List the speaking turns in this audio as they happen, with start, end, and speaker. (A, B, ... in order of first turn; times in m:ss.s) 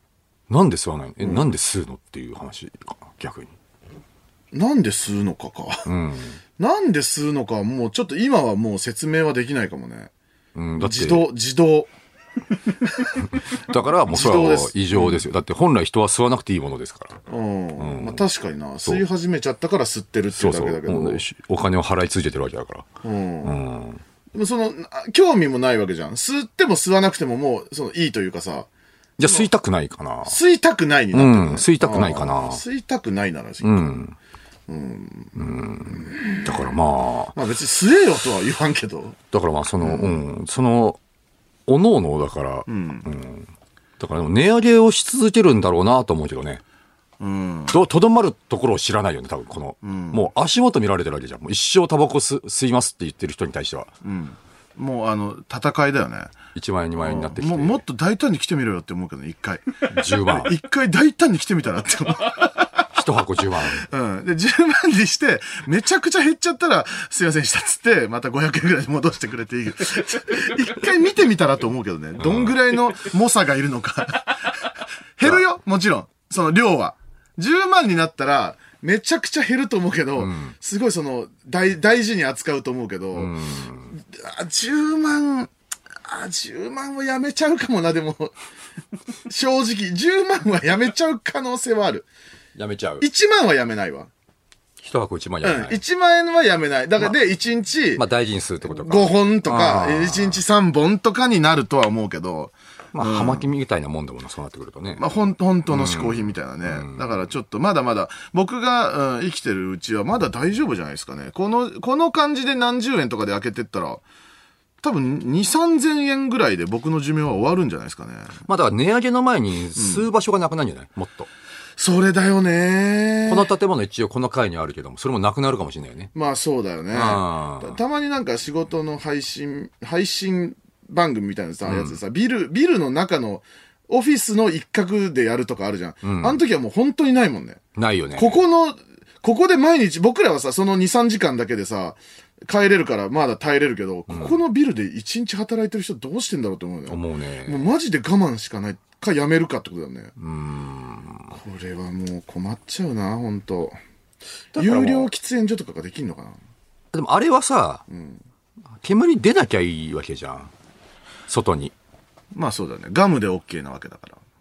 0:00.5-0:03.5 A
0:04.5-0:05.9 B
0:05.9-0:06.4 A
0:06.6-0:10.1 B
0:10.6-0:11.3 A
0:10.8-0:11.9 B
0:12.8-0:13.2 B
0:13.2-0:17.2 A
0:14.1-0:15.2 B
0:17.3-0:21.2 B
0:17.8-0:18.2 A
0:20.4-0:22.9 A
0:23.0-0:23.6 B
0:23.4-0:24.0 A
0:24.3-0:28.7 B
0:29.2-0:30.4 A
0:30.3-0:33.8 B
0:31.1-0:32.6 A
0:33.6-0:34.2 A
0:34.7-0:36.7 B
0:35.4-0:37.4 A
0:37.3-0:39.2 B
0:39.3-0:41.0 A
0:39.8-0:40.2 B
0:41.7-0:46.6 A
0:42.7-0:43.1 B
0:47.2-0:47.8 B
0:47.7-0:53.9 A
0:49.8-0:50.3 B
0:54.0-0:56.3 B
0:56.5-0:57.8 A
0:57.0-1:02.8 B
0:59.9-1:00.5 A
1:02.9-1:03.9 A
1:03.8-1:23.3 B
1:12.2-1:12.6 A
1:20.2-1:20.5 A
1:23.2-1:24.0 A
1:23.9-1:25.5 B
1:26.0-1:28.4 B
1:29.3-1:32.1 B
1:32.6-1:33.0 A
1:33.0-1:34.1 B
1:34.8-1:35.8 A
1:35.4-1:38.0 B
1:38.0-1:40.4 A
1:38.6-1:43.5 B
1:42.9-1:45.1 A
1:45.0-1:54.0 B
1:45.7-1:47.0 A
1:54.8-1:58.4 B
1:58.5-2:01.3 A
1:59.8-2:00.1 B
2:01.8-2:03.5 B
2:03.3-2:06.1 A
2:06.1-2:17.6 B
2:06.9-2:07.8 A
2:11.7-2:12.0 A
2:16.0-2:16.4 A
2:17.8-2:18.4 A
2:18.2-2:30.1 B
2:24.1-2:24.4 A
2:26.9-2:27.7 A
2:30.2-2:31.4 A
2:31.3-2:33.8 B
2:34.5-2:35.1 A
2:34.6-2:36.4 B
2:36.9-2:37.8 A
2:37.9-2:38.2 B
2:38.8-2:40.5 A
2:41.3-2:41.7 A
2:42.3-2:44.2 B